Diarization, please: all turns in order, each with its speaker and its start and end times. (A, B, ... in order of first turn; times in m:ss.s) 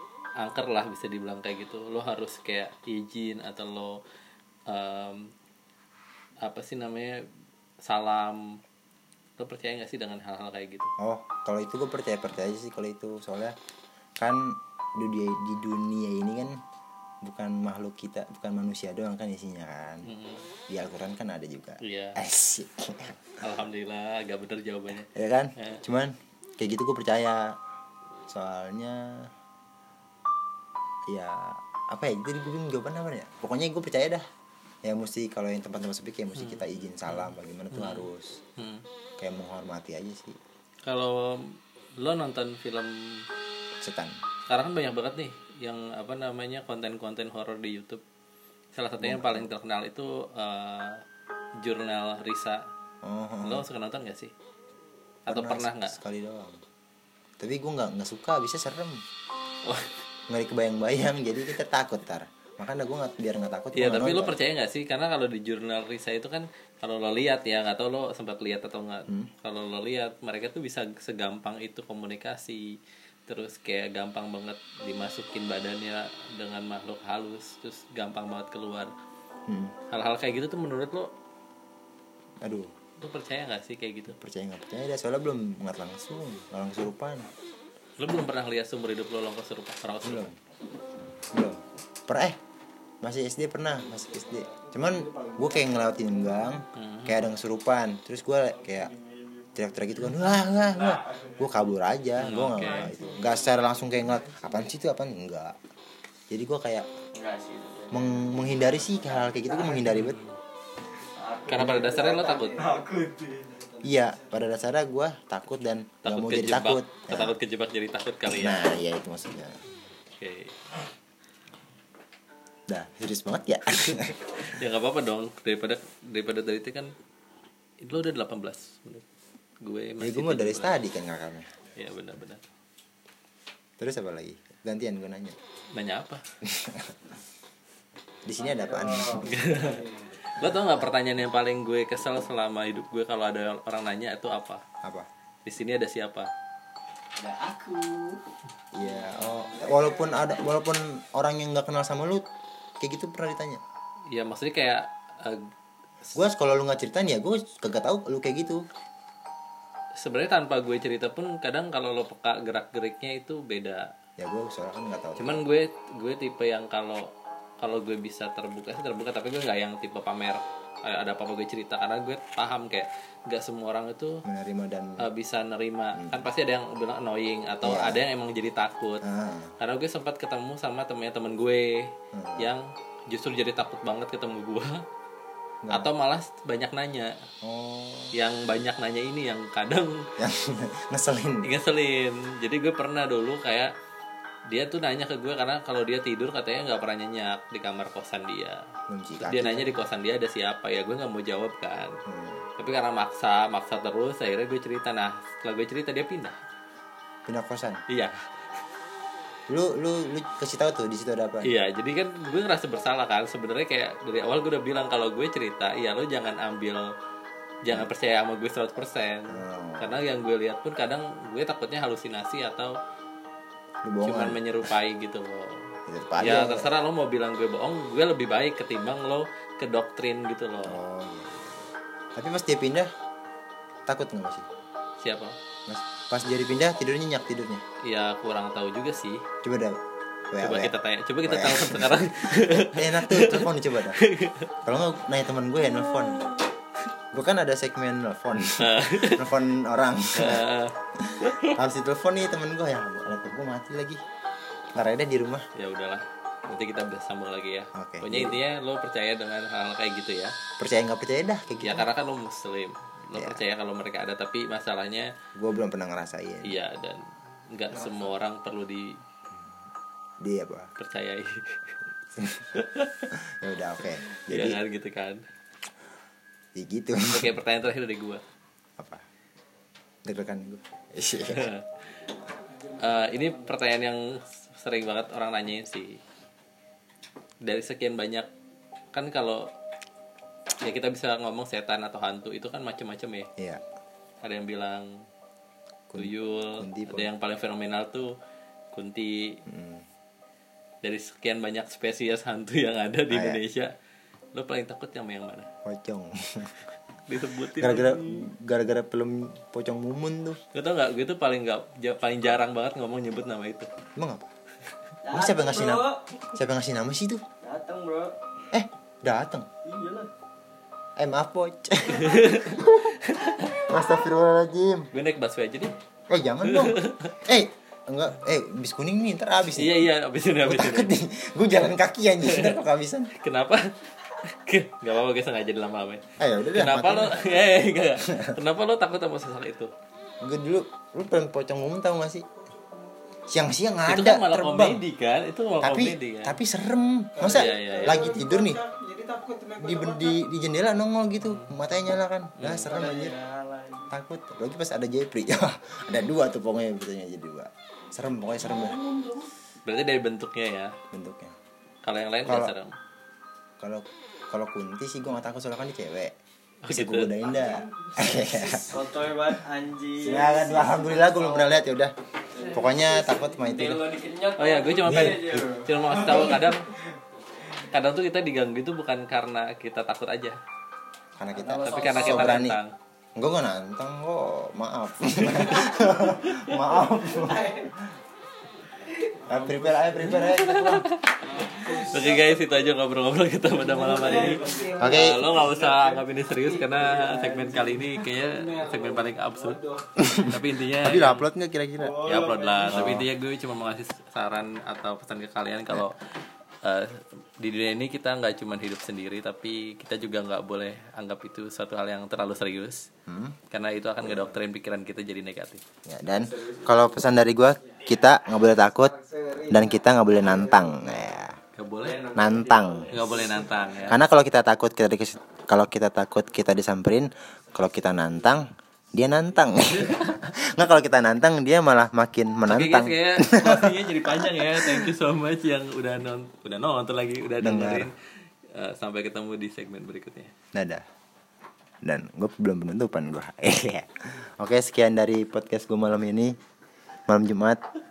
0:00.4-0:04.0 A
0:04.7-0:05.3 A
0:06.4-0:07.3 A
0:07.8-0:08.6 A
0:09.4-0:10.9 A
0:11.0-0:13.6 B
0:14.2-0:16.6 B
0:17.2-0:20.1 B
0:20.0-0:20.5 A
0:20.7-0:23.3 B
0:21.8-0:22.2 A
0:23.4-0:25.8 A
0:25.0-0:27.6 B
0:28.3-0:29.3 B
0:31.1-0:34.2 B
0:34.8-0:38.4 B
0:36.4-0:38.8 A
0:39.2-0:40.4 B
0:40.9-0:43.3 A
0:43.8-0:44.2 B
0:44.5-0:48.0 A
0:48.7-0:51.0 A
0:49.0-0:49.5 B
0:51.6-0:52.7 A
0:53.0-0:53.7 B
0:53.4-0:54.3 A
0:55.3-0:56.0 A
0:55.3-0:56.6 B
0:57.4-0:59.0 B
0:59.6-0:59.9 A
1:00.3-1:04.4 B
1:03.7-1:18.9 A
1:19.5-1:19.8 B
1:19.9-1:21.1 A
1:22.4-1:22.7 B
1:23.0-1:24.2 A
1:24.1-1:27.3 B
1:28.0-1:30.3 A
1:30.0-1:30.4 B
1:31.3-1:32.4 B
1:33.0-1:38.9 B
1:33.7-1:36.6 C
1:36.7-1:37.2 A
1:38.5-1:41.6 C
1:39.6-1:45.6 B
1:42.2-1:42.9 A
1:42.7-1:44.7 C
1:46.3-1:46.9 B
1:47.1-1:50.0 C
1:47.9-1:50.2 B
1:49.9-1:50.4 A
1:51.0-1:54.3 C
1:51.5-1:52.7 A
1:51.6-1:51.9 B
1:53.8-1:57.4 B
1:56.0-1:58.7 A
1:58.3-1:59.6 B
2:00.2-2:00.6 A
2:02.7-2:04.2 B
2:03.8-2:06.9 A
2:07.8-2:09.0 A
2:09.6-2:10.8 A
2:10.0-2:11.5 B
2:11.8-2:12.4 A
2:13.8-2:15.4 B
2:15.7-2:16.2 A
2:16.4-2:17.0 B
2:18.3-2:19.6 B
2:18.4-2:20.1 C
2:19.2-2:24.6 A
2:24.8-2:25.1 B
2:25.4-2:26.3 A
2:27.2-2:28.2 C
2:28.7-2:32.2 B
2:28.8-2:30.4 C
2:32.8-2:33.6 B
2:34.1-2:35.5 A
2:36.1-2:38.6 B
2:40.0-2:43.9 A
2:44.2-2:45.4 B
2:45.2-2:54.2 A
2:54.2-2:55.0 B
2:55.0-2:59.0 A
2:56.0-2:56.2 B
2:57.6-2:58.0 B
2:59.0-2:59.5 B
2:59.6-3:04.8 A
3:02.1-3:02.5 B
3:05.7-3:07.2 A
3:07.4-3:08.1 B
3:08.1-3:10.1 A
3:10.2-3:11.5 B
3:11.4-3:13.7 A
3:14.5-3:18.7 A
3:18.9-3:19.7 B
3:19.2-3:22.0 A
3:22.1-3:22.4 B
3:22.6-3:26.4 A
3:27.3-3:27.8 B
3:27.9-3:28.2 A
3:29.5-3:31.5 B
3:31.4-3:36.9 A
3:37.6-3:42.8 A
3:39.3-3:40.0 B
3:43.8-3:44.4 B
3:44.0-3:50.8 A
3:45.9-3:46.7 B
3:50.6-3:52.9 B
3:53.9-3:54.5 B
3:55.0-3:55.4 A
3:55.7-3:57.6 B
3:57.8-3:59.2 A
3:59.4-3:59.8 B
4:00.3-4:04.0 B
4:00.4-4:04.5 A
4:04.6-4:06.3 B
4:07.1-4:10.5 B
4:08.6-4:09.3 A
4:10.2-4:11.6 A
4:11.0-4:14.0 B
4:14.8-4:15.5 B
4:15.6-4:20.3 A
4:17.7-4:18.4 B
4:20.6-4:21.9 B
4:21.6-4:25.1 A
4:23.2-4:23.4 B
4:25.4-4:26.6 B
4:26.4-4:29.0 A
4:27.7-4:28.1 B
4:30.2-4:30.7 B
4:30.8-4:31.8 A
4:32.2-4:32.5 B
4:32.6-4:33.1 A
4:33.2-4:34.6 B
4:34.1-4:35.2 A
4:36.6-4:37.4 B
4:37.1-4:38.2 A
4:38.8-4:39.0 B
4:40.0-4:41.5 B
4:41.2-4:41.8 A
4:42.5-4:43.5 C
4:42.8-4:46.0 A
4:47.4-4:48.3 A
4:48.9-4:49.5 A
4:50.6-4:53.3 A
4:53.4-4:53.6 B
4:54.2-4:55.0 A
4:55.9-4:57.1 B
4:56.0-4:58.2 A
4:58.7-4:59.4 A
4:59.5-4:59.8 B
5:00.8-5:03.7 A
5:03.1-5:03.4 B
5:04.3-5:05.5 A
5:05.6-5:06.5 B
5:07.1-5:08.3 A
5:07.6-5:10.4 B
5:10.5-5:13.7 A
5:14.0-5:14.3 B
5:15.0-5:16.0 C
5:15.1-5:17.2 B
5:17.4-5:18.2 C
5:18.5-5:19.5 B
5:19.6-5:20.1 C
5:21.0-5:23.0 B
5:22.0-5:23.6 A
5:23.5-5:24.9 B
5:24.9-5:25.8 A
5:26.1-5:29.9 B
5:26.4-5:27.2 A
5:29.5-5:30.9 A
5:30.4-5:33.1 B
5:32.3-5:32.6 A
5:33.1-5:39.7 A
5:36.2-5:37.5 B
5:38.0-5:38.4 B
5:40.2-5:42.3 B
5:43.3-5:44.8 B
5:43.9-5:46.4 A
5:45.6-5:48.6 B
5:47.2-5:50.2 C
5:47.3-5:48.2 A
5:49.6-5:53.2 B
5:52.4-5:52.7 A
5:52.7-5:53.9 C
5:53.9-5:58.8 B
5:58.4-5:59.3 C
5:59.7-6:00.8 A
6:00.9-6:01.4 B
6:01.8-6:02.7 A
6:02.3-6:02.5 B
6:03.6-6:06.1 B
6:06.6-6:07.2 A
6:06.7-6:09.4 B
6:07.3-6:11.6 C
6:10.0-6:11.9 B
6:12.3-6:16.5 C
6:12.5-6:13.8 B
6:14.4-6:16.7 A
6:14.8-6:16.4 B
6:17.7-6:20.4 A
6:21.2-6:22.6 B
6:21.3-6:22.5 C
6:21.4-6:22.7 A
6:23.2-6:27.8 B
6:25.2-6:25.7 A
6:26.8-6:27.7 C
6:29.1-6:32.7 C
6:29.3-6:30.8 B
6:30.1-6:39.6 A
6:33.5-6:40.1 C
6:34.8-6:35.3 B
6:40.0-6:42.0 B
6:40.2-6:41.3 A
6:41.8-6:42.9 C
6:42.0-6:46.0 A
6:42.7-6:43.1 B
6:46.6-6:52.9 A
6:53.1-6:53.4 B
6:53.5-6:55.6 A
6:54.0-6:54.4 B
6:55.9-6:59.0 B
6:56.3-6:56.7 C
6:58.8-7:00.9 C
6:59.5-7:01.4 B
7:01.6-7:02.0 A
7:01.8-7:03.6 C
7:02.1-7:03.1 B
7:02.9-7:04.0 A
7:03.9-7:14.9 B
7:09.7-7:10.2 A
7:12.5-7:17.9 A
7:17.4-7:17.9 B
7:18.5-7:20.3 A
7:20.5-7:20.8 B
7:21.8-7:26.4 B
7:27.1-7:27.6 B